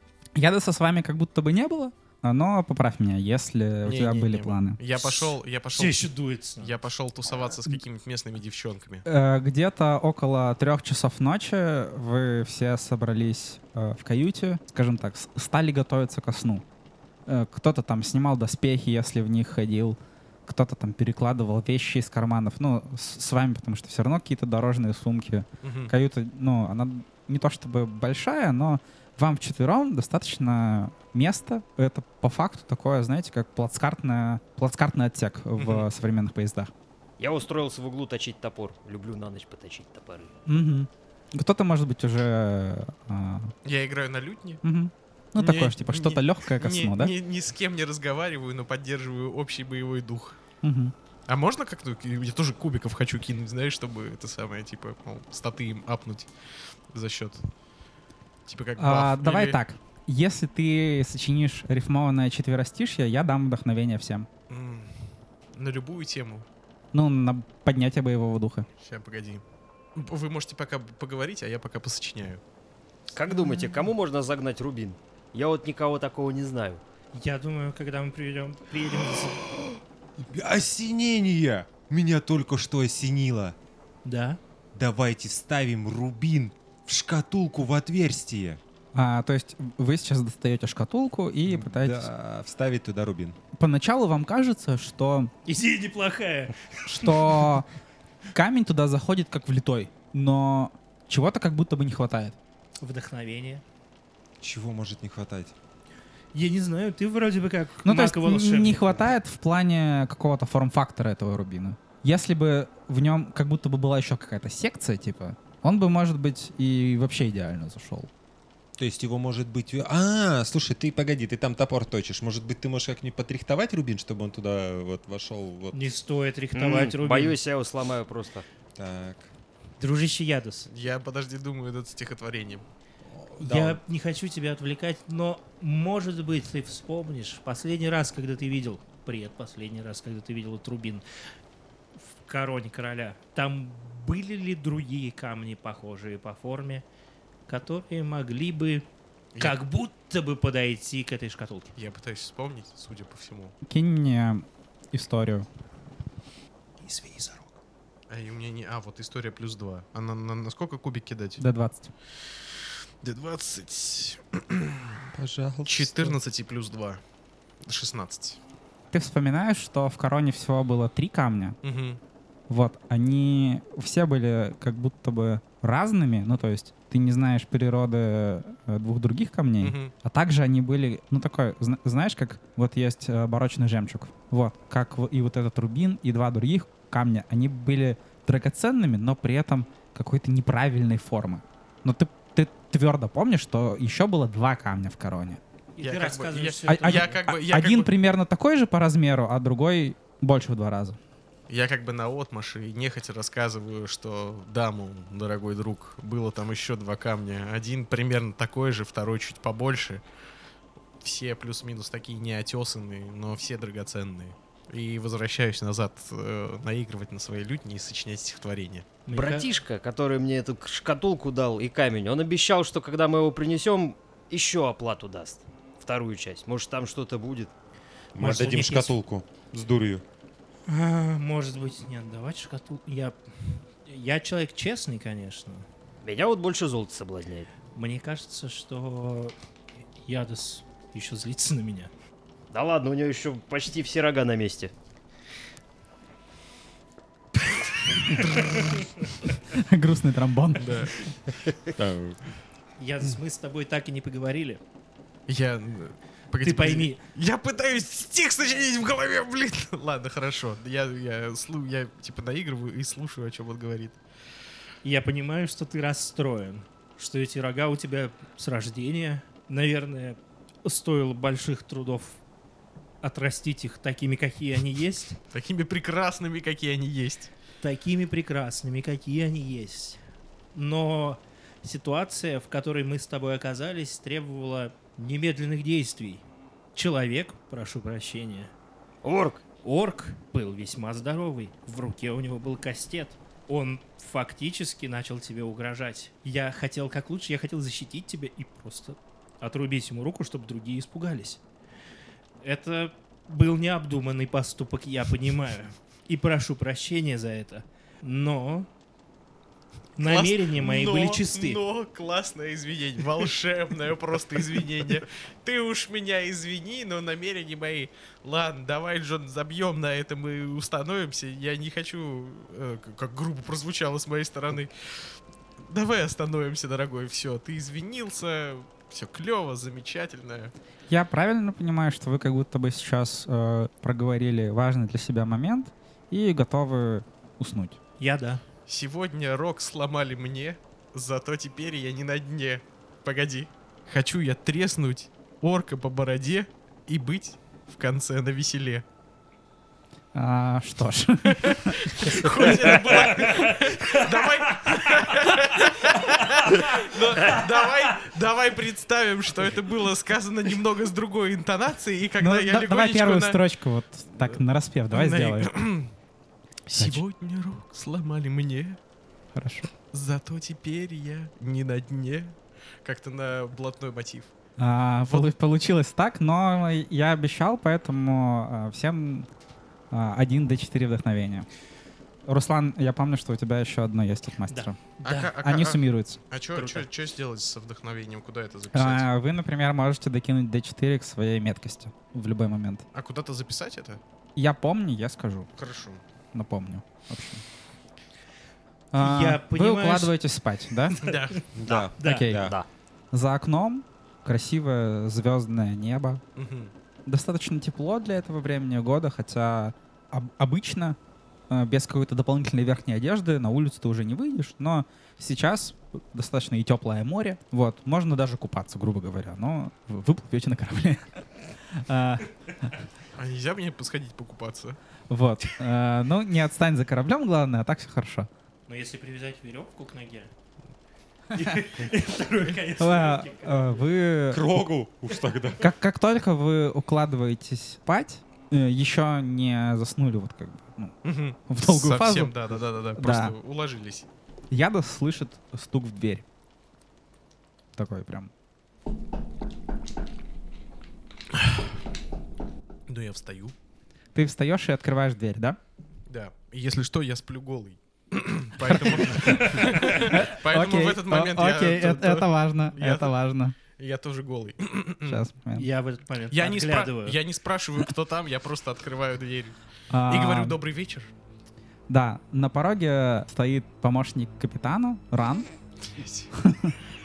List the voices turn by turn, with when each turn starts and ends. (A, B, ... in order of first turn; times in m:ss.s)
0:00.4-0:04.8 A
0:03.8-0:09.1 B
0:05.0-0:06.8 C
0:09.0-0:16.6 A
0:17.3-0:36.7 A
0:25.6-0:25.9 B
0:35.6-0:35.9 B
0:37.2-0:40.3 D
0:40.5-0:43.5 A
0:43.6-0:44.6 B
0:44.6-0:47.1 A
0:45.4-0:50.4 B
0:50.6-0:50.9 A
0:51.3-0:56.3 B
0:56.9-0:57.4 B
0:58.5-0:59.6 B
0:58.8-1:04.3 A
1:04.5-1:05.0 B
1:05.5-1:06.5 B
1:06.9-1:08.7 A
1:08.8-1:09.4 B
1:10.0-1:12.4 B
1:13.1-1:16.8 D
1:17.1-1:19.4 C
1:20.2-1:23.6 E
1:24.0-1:24.4 C
1:24.7-1:28.6 E
1:28.9-1:32.1 A
1:31.5-1:33.4 E
1:33.6-1:35.3 A
1:35.5-1:37.4 C
1:36.9-1:37.7 A
1:38.3-1:42.4 A
1:42.8-1:43.6 C
1:44.4-1:45.5 E
1:46.3-1:49.1 C
1:47.8-1:58.1 A
1:58.8-2:05.8 E
2:05.7-2:07.4 C
2:06.6-2:08.4 D
2:08.8-2:09.3 E
2:09.8-2:10.7 C
2:10.7-2:12.6 B
2:13.1-2:13.8 E
2:13.4-2:21.0 C
2:22.0-2:26.8 C
2:27.5-2:28.9 C
2:29.4-2:31.7 C
2:31.8-2:33.6 B
2:33.6-2:35.5 A
2:36.8-2:37.6 C
2:38.1-2:41.4 B
2:41.4-2:41.9 A
2:43.0-2:45.0 B
2:45.1-2:46.2 E
2:45.6-2:47.0 B
2:47.6-2:48.4 B
2:48.9-2:51.6 A
2:51.6-2:52.0 B
2:52.5-3:15.4 A
2:59.6-2:59.9 B
3:15.8-3:17.2 C
3:15.8-3:17.9 B
3:16.7-3:21.0 A
3:21.5-3:30.0 B
3:31.0-3:38.9 B
3:39.1-3:39.5 C
3:39.1-3:47.5 D
3:48.2-3:50.0 E
3:48.2-3:49.0 C
3:50.7-3:55.7 C
3:56.0-3:57.5 D
3:57.7-3:59.4 C
4:00.1-4:01.9 C
4:02.5-4:04.7 D
4:08.0-4:08.9 B
4:09.4-4:10.9 A
4:10.6-4:11.0 B
4:11.8-4:12.3 E
4:12.8-4:14.6 C
4:15.3-4:24.0 B
4:16.4-4:17.0 C
4:24.8-4:32.2 C
4:33.0-4:35.2 C
4:35.3-4:37.3 B
4:37.6-4:40.0 C
4:40.6-4:46.2 C
4:46.8-4:48.5 C
4:49.0-4:49.4 D
4:49.6-5:01.4 C
5:02.4-5:08.7 C
5:10.0-5:11.6 C
5:10.0-5:30.5 B
5:30.9-5:37.8 A
5:38.0-5:38.4 C
5:38.7-5:48.8 B
5:50.1-5:52.1 A
5:51.3-6:03.4 B
5:52.9-5:53.6 C
5:56.2-5:56.5 C
6:02.2-6:05.5 A
6:04.9-6:05.9 B
6:06.7-6:08.8 B
6:06.8-6:07.0 A
6:09.3-6:09.7 A
6:09.9-6:14.3 B
6:14.6-6:19.3 A
6:19.9-6:21.5 A
6:22.3-6:24.8 A
6:24.5-6:25.3 C
6:25.0-6:29.1 B
6:25.4-6:26.2 A
6:26.6-6:26.9 C
6:28.7-6:32.8 A
6:32.9-6:34.0 B
6:34.4-6:35.5 A
6:35.6-6:36.0 B
6:36.3-6:37.4 A
6:38.9-6:41.1 A
6:39.0-6:40.1 C
6:41.0-6:41.4 B
6:41.6-6:42.6 E
6:41.6-6:42.7 D
6:42.0-6:42.3 C
6:42.0-6:42.5 A
6:43.1-6:46.2 A
6:46.4-6:46.7 B
6:47.1-6:51.0 A
6:51.5-7:02.3 A
7:03.2-7:04.8 B
7:05.1-7:08.3 A
7:08.7-7:10.3 C
7:11.3-7:13.8 C
7:12.8-7:14.4 A
7:14.3-7:15.7 E
7:15.6-7:21.0 A
7:21.0-7:24.1 B
7:21.5-7:22.4 A
7:23.0-7:23.4 A
7:24.5-7:26.2 A
7:27.8-7:28.3 A
7:32.9-7:33.5 B
7:34.1-7:35.6 A
7:36.1-7:43.2 B
7:38.6-7:43.6 A
7:39.5-7:39.8 C
7:43.8-7:45.2 B
7:45.0-7:45.7 A
7:45.6-7:47.2 C
7:46.3-7:49.6 B
7:49.9-7:50.6 A
7:50.1-7:51.1 B
7:51.9-7:55.5 A
7:56.0-7:56.3 B
7:56.4-7:56.8 A